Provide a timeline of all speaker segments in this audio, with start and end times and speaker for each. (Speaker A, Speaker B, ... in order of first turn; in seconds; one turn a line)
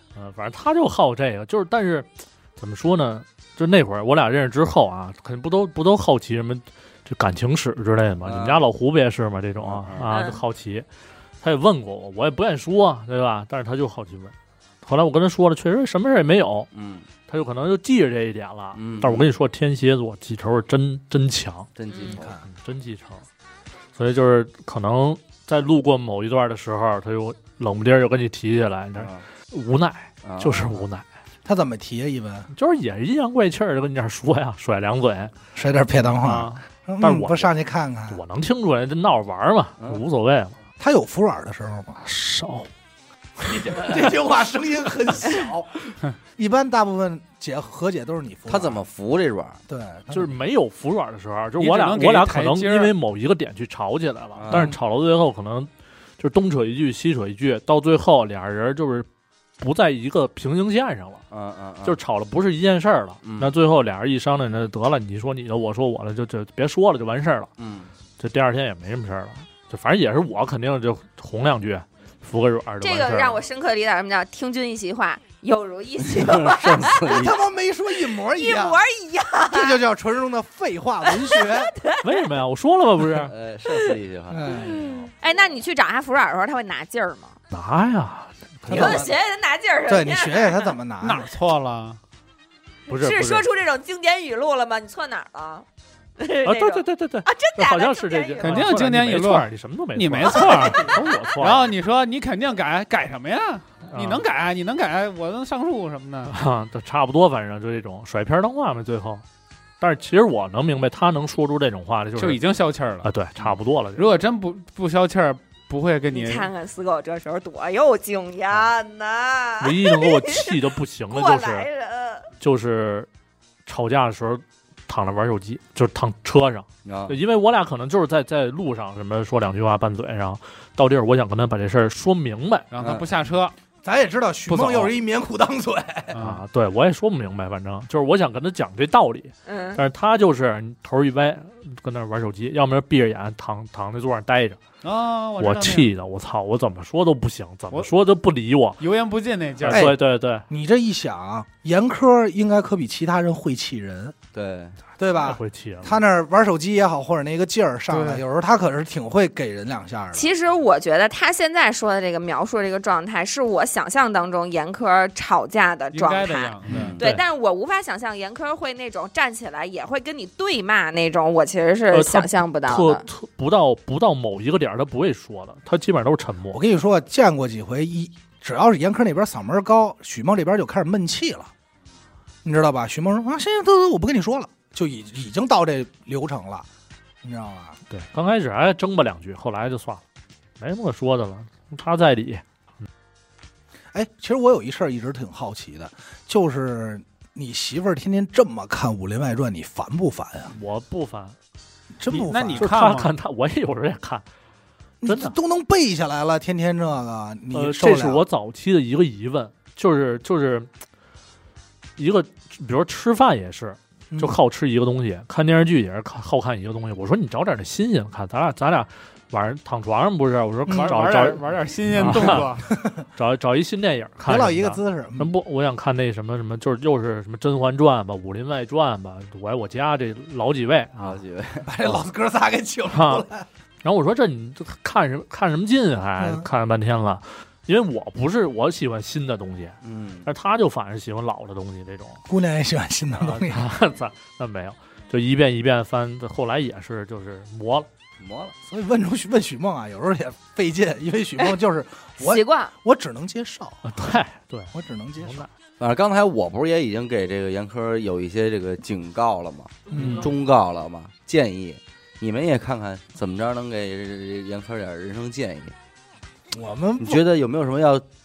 Speaker A: 0.1-10.8
Speaker B: 8.2-8.6
Speaker B: 9.6-10.1
Speaker C: 10.1-10.4
Speaker A: 11.4-16.7
Speaker B: 16.7-17.1
Speaker A: 17.3-21.7
Speaker B: 18.7-19.3
Speaker B: 21.8-22.4
Speaker C: 21.9-22.2
Speaker D: 22.1-22.4
Speaker A: 22.4-23.2
Speaker A: 23.9-31.0
Speaker B: 29.0-29.2
Speaker B: 30.2-30.8
Speaker D: 31.4-32.5
Speaker A: 32.5-35.3
Speaker D: 35.5-38.2
Speaker A: 36.2-37.5
Speaker A: 38.1-40.5
Speaker D: 40.8-42.0
Speaker A: 42.0-42.7
Speaker D: 43.5-48.8
Speaker A: 43.5-44.0
Speaker B: 48.5-49.6
Speaker D: 49.7-50.3
Speaker A: 50.1-59.1
Speaker E: 51.6-52.9
Speaker B: 54.3-54.7
Speaker D: 54.5-54.8
Speaker A: 59.6-61.2
Speaker B: 61.3-62.0
Speaker A: 61.8-67.5
Speaker B: 63.2-63.5
Speaker B: 67.6-67.9
Speaker A: 68.2-73.4
Speaker C: 72.8-77.2
Speaker B: 76.0-77.4
Speaker D: 77.1-78.8
Speaker C: 78.2-79.8
Speaker D: 79.4-81.7
Speaker C: 81.1-82.0
Speaker A: 82.0-83.3
Speaker B: 83.2-84.8
Speaker D: 84.3-85.1
Speaker C: 84.5-87.3
Speaker A: 87.5-89.1
Speaker C: 88.7-90.7
Speaker D: 88.7-89.0
Speaker B: 88.7-89.0
Speaker D: 89.9-91.3
Speaker E: 91.0-92.0
Speaker A: 92.9-93.5
Speaker C: 92.9-95.7
Speaker C: 96.2-98.7
Speaker A: 96.4-101.7
Speaker E: 98.4-106.3
Speaker C: 100.6-101.0
Speaker A: 103.9-104.2
Speaker A: 106.3-109.2
Speaker A: 109.8-112.4
Speaker E: 112.2-113.1
Speaker A: 113.0-114.1
Speaker E: 114.0-116.5
Speaker C: 116.1-120.6
Speaker A: 119.6-121.7
Speaker C: 121.1-122.3
Speaker A: 122.4-123.1
Speaker A: 123.7-132.7
Speaker B: 126.8-127.2
Speaker E: 132.7-133.5
Speaker B: 132.8-133.1
Speaker D: 133.8-136.2
Speaker E: 134.6-134.9
Speaker E: 136.1-136.4
Speaker A: 136.2-144.6
Speaker C: 139.4-139.8
Speaker E: 144.8-145.9
Speaker A: 145.4-148.8
Speaker E: 148.8-149.9
Speaker A: 149.6-150.4
Speaker D: 149.7-150.0
Speaker D: 150.5-154.1
Speaker B: 154.3-154.8
Speaker D: 155.0-160.3
Speaker A: 155.2-156.0
Speaker E: 157.9-158.2
Speaker C: 160.1-173.1
Speaker E: 165.9-166.9
Speaker B: 166.7-167.0
Speaker A: 166.8-167.2
Speaker A: 171.9-176.6
Speaker D: 176.5-181.5
Speaker D: 182.4-186.7
Speaker D: 187.2-187.8
Speaker A: 187.9-190.0
Speaker A: 190.6-192.4
Speaker D: 193.9-200.5
Speaker A: 200.5-201.3
Speaker D: 202.0-202.7
Speaker A: 202.1-204.2
Speaker E: 202.1-203.1
Speaker D: 205.0-208.2
Speaker A: 205.0-205.3
Speaker A: 207.5-210.7
Speaker A: 212.0-222.5
Speaker D: 220.7-221.0
Speaker E: 220.7-222.7
Speaker D: 222.0-223.0
Speaker A: 223.2-231.2
Speaker D: 224.3-225.3
Speaker B: 231.0-232.0
Speaker D: 231.6-233.4
Speaker A: 232.9-233.2
Speaker A: 233.8-242.2
Speaker D: 236.2-236.4
Speaker B: 239.8-240.3
Speaker D: 242.3-243.7
Speaker A: 243.1-247.9
Speaker B: 248.2-248.5
Speaker D: 248.6-254.1
Speaker C: 252.2-252.7
Speaker A: 253.8-255.5
Speaker D: 254.7-255.4
Speaker B: 255.8-265.8
Speaker D: 259.9-260.3
Speaker A: 259.9-260.2
Speaker D: 266.5-267.2
Speaker B: 267.0-268.0